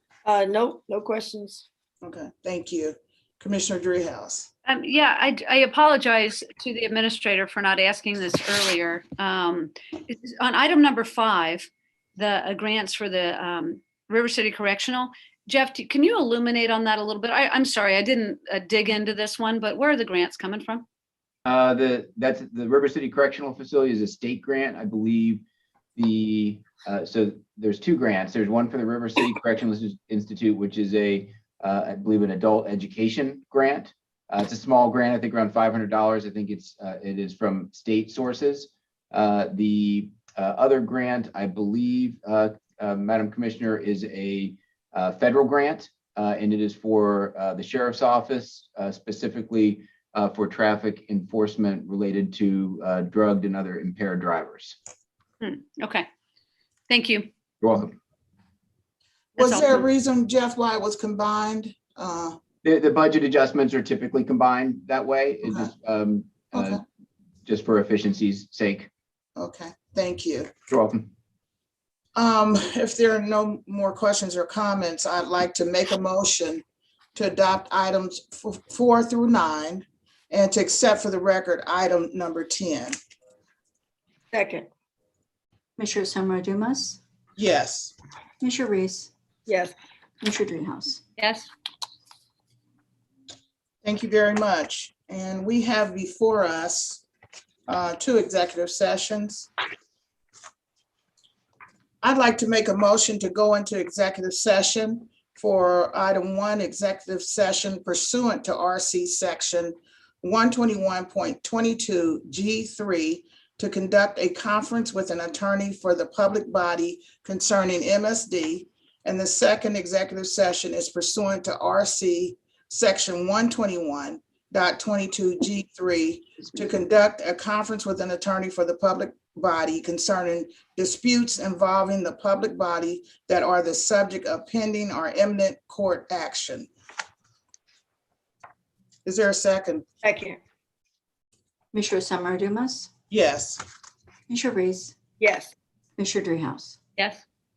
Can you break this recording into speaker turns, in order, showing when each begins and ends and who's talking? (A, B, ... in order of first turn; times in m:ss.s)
0:00.2-0:01.6 A
0:02.0-0:04.5 B
0:04.6-0:20.8 C
0:21.4-0:25.4 D
0:26.0-0:54.8 D
0:55.4-0:56.0 C
0:56.9-0:57.3 C
0:57.6-0:58.0 D
0:59.4-1:02.4 B
0:59.4-0:59.8 C
1:02.6-1:06.8 D
1:06.5-1:06.8 B
1:07.4-1:08.9 D
1:09.4-1:10.5 B
1:10.7-1:11.1 D
1:12.2-1:16.6 B
1:17.1-1:23.0 B
1:24.3-1:24.7 A
1:25.8-1:27.0 E
1:27.4-1:27.9 B
1:28.4-1:29.1 E
1:29.5-1:29.7 A
1:30.2-1:31.0 E
1:31.2-1:31.5 C
1:33.8-1:37.0 B
1:37.7-1:39.5 B
1:42.0-2:16.7 B
2:19.0-2:19.8 B
2:20.0-2:20.4 A
2:21.7-2:22.9 E
2:23.1-2:23.6 B
2:24.3-2:24.9 E
2:25.2-2:25.5 A
2:26.0-2:26.8 E